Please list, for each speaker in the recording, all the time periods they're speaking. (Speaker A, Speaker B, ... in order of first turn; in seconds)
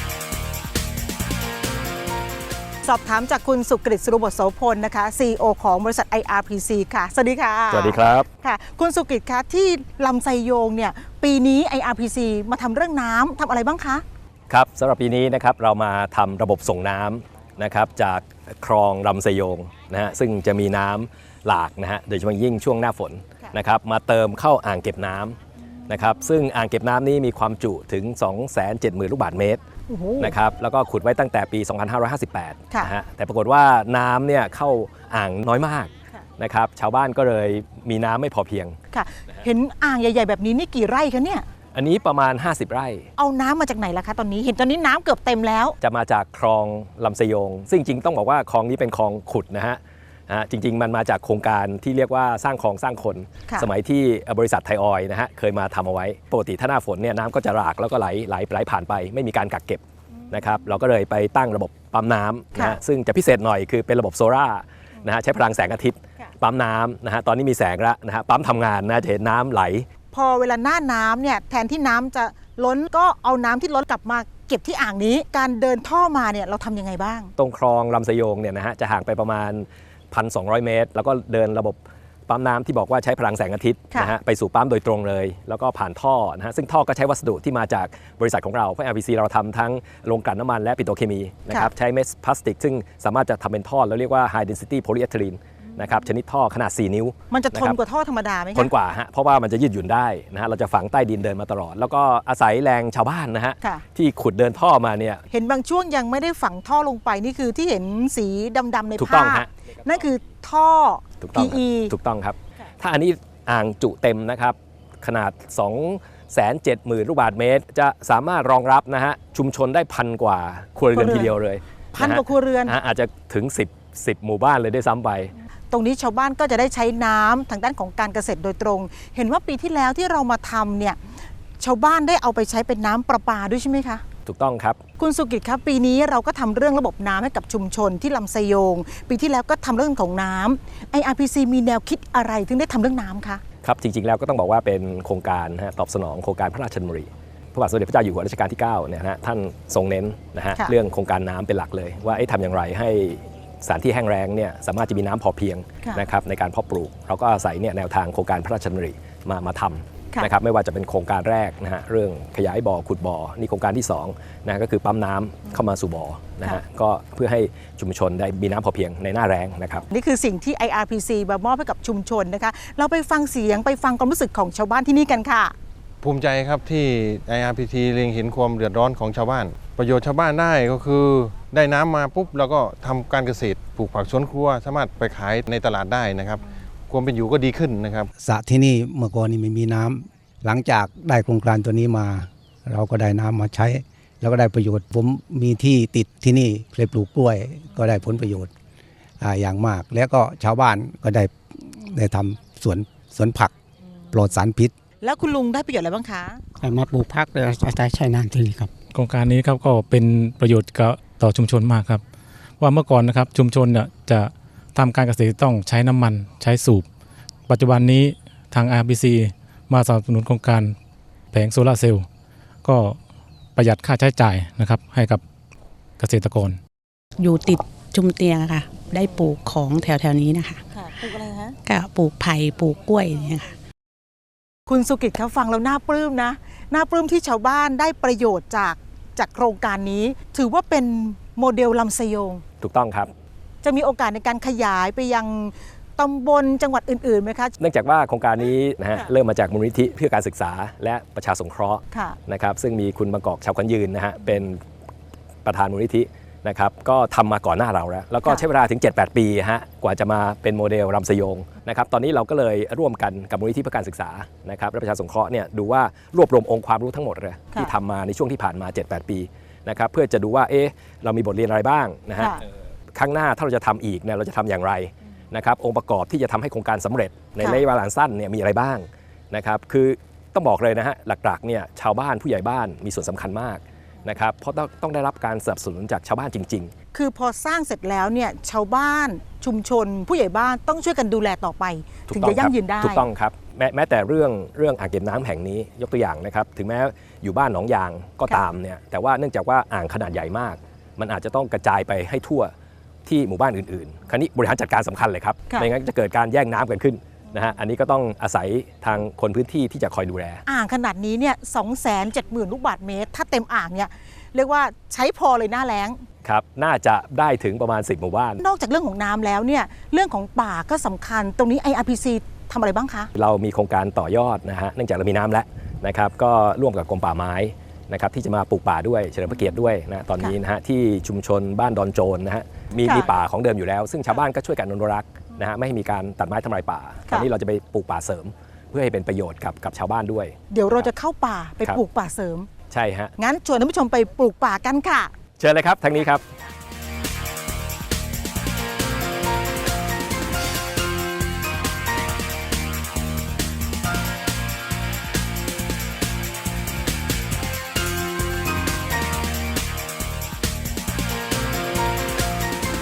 Speaker A: 2.8-14.0, 29.9-30.4, 38.9-41.4, 43.2-45.8, 70.1-77.3, 97.3-98.7, 105.3-111.9, 120.9-121.3, 121.9-122.8, 125.7-131.0, 131.6-134.0, 135.0-143.4, 169.9-175.5, 205.0-206.4, 230.7-231.6, 234.7-242.4, 243.6-247.5, 251.9-252.2, 286.9-293.1, 310.4-316.0, 318.4-323.1, 340.5-342.5, 343.2-345.1
Speaker B: 7.7-8.2, 14.5-29.6, 30.2-38.8, 41.7-43.1, 45.8-69.8, 77.4-97.8, 98.5-105.2, 109.0-109.5, 111.2-125.3, 134.2-134.8, 143.6-169.9, 242.6-243.1, 247.6-254.6, 255.4-272.3, 272.9-286.7, 292.1-302.5, 303.1-310.4, 316.2-318.4, 323.1-340.9, 342.7-343.1, 345.4-346.2
Speaker C: 176.0-188.1
Speaker D: 188.2-198.5, 199.2-203.5, 204.1-204.7
Speaker E: 206.6-208.7
Speaker F: 208.9-212.0, 212.6-216.8, 217.5-220.8, 221.3-222.1, 222.6-223.0, 223.5-225.2, 226.0-226.6
Speaker G: 227.2-230.6, 231.7-233.5